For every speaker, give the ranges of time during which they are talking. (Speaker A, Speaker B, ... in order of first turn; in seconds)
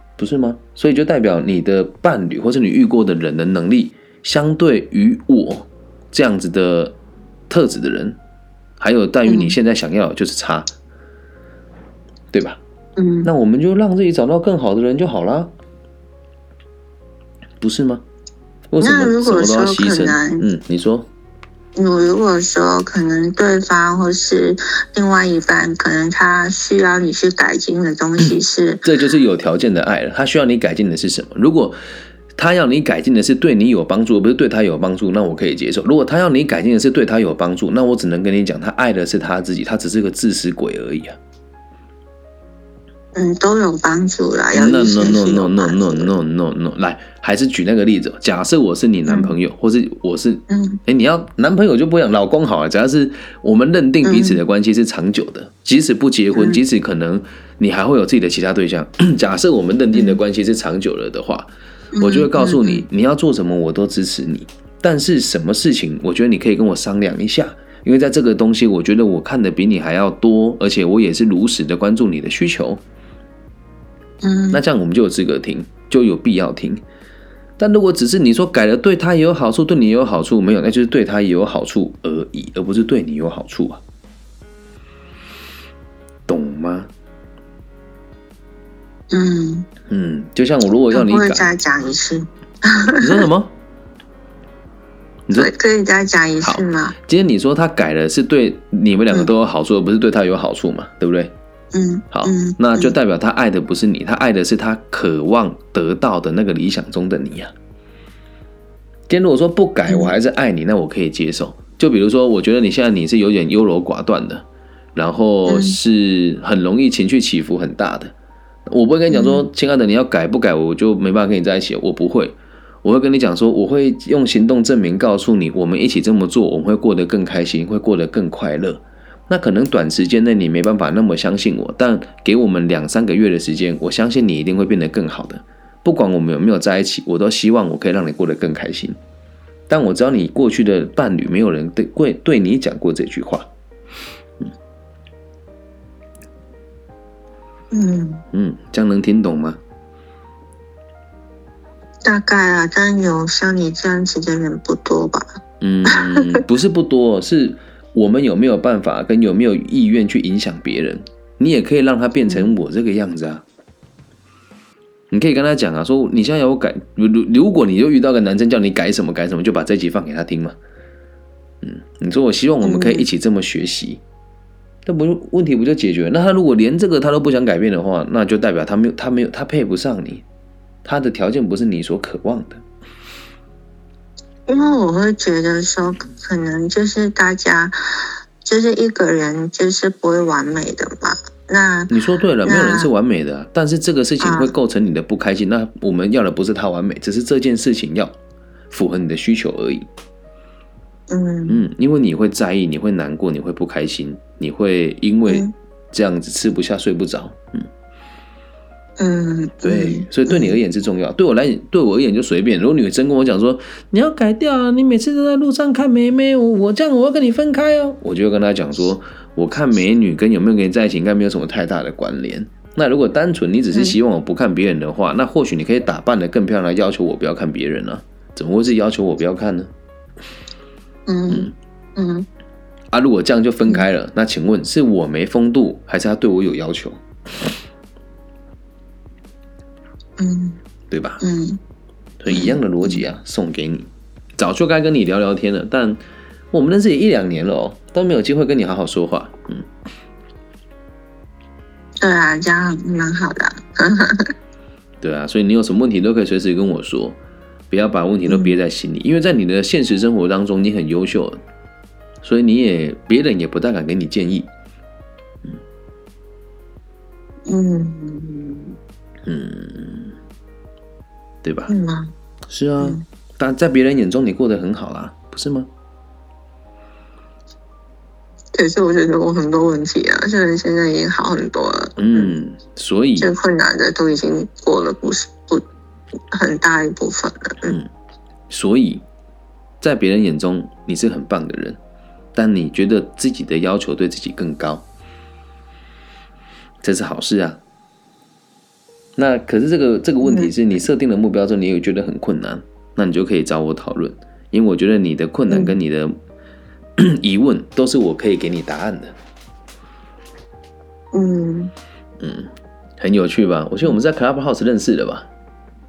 Speaker A: 0.2-7.0, 7.5-8.2, 8.8-10.7, 12.3-12.6, 13.2-15.5, 17.6-18.0, 18.7-21.1, 28.2-31.8, 32.4-41.2, 44.5-61.5, 62.0-72.8, 74.5-76.8, 77.6-83.8, 86.3-86.9, 89.9-91.5, 93.0-93.5, 96.4-101.3, 102.1-107.5, 109.1-118.1, 118.7-139.0, 139.7-143.5, 148.3-149.6, 155.6-163.4, 165.1-170.6, 171.6-174.0, 174.9-180.2, 180.8-182.6, 191.9-198.2, 198.7-199.9, 201.5-207.7, 209.6-229.7, 232.9-237.0, 240.9-241.2, 242.2-246.0, 246.5-249.7, 255.0-257.2, 257.7-261.4, 262.2-264.5, 269.2-270.1, 271.4-271.7, 272.5-275.7, 282.0-283.3, 287.6-287.9, 288.5-289.0, 289.8-291.8, 292.4-294.9, 296.8-297.6, 299.2-306.1, 307.0-309.1, 312.2-315.2
Speaker B: 9.2-9.6, 13.0-13.3, 18.8-20.5, 21.8-28.8, 43.1-46.1, 49.0-49.3, 50.5-50.8, 54.0-54.4, 56.3-56.6, 59.9-60.2, 61.9-62.9, 74.2-74.6, 89.1-89.7, 90.9-93.2, 95.3-97.0, 101.7-103.0, 109.9-110.1, 115.5-115.8, 119.1-119.5, 147.7-148.2, 152.0-155.2, 155.9-156.4, 162.2-162.5, 172.6-173.1, 184.5-187.8, 188.4-191.9, 192.4-192.9, 194.2-194.5, 201.1-201.6, 205.3-205.5, 209.0-210.6, 231.1-232.2, 240.2-240.6, 241.2-241.6, 242.3-243.0, 252.0-254.3, 258.3-258.5, 267.5-268.8, 271.7-272.1, 278.5-282.4, 283.2-285.6, 286.3-287.8, 300.2-300.5, 305.5-305.8, 311.1-311.7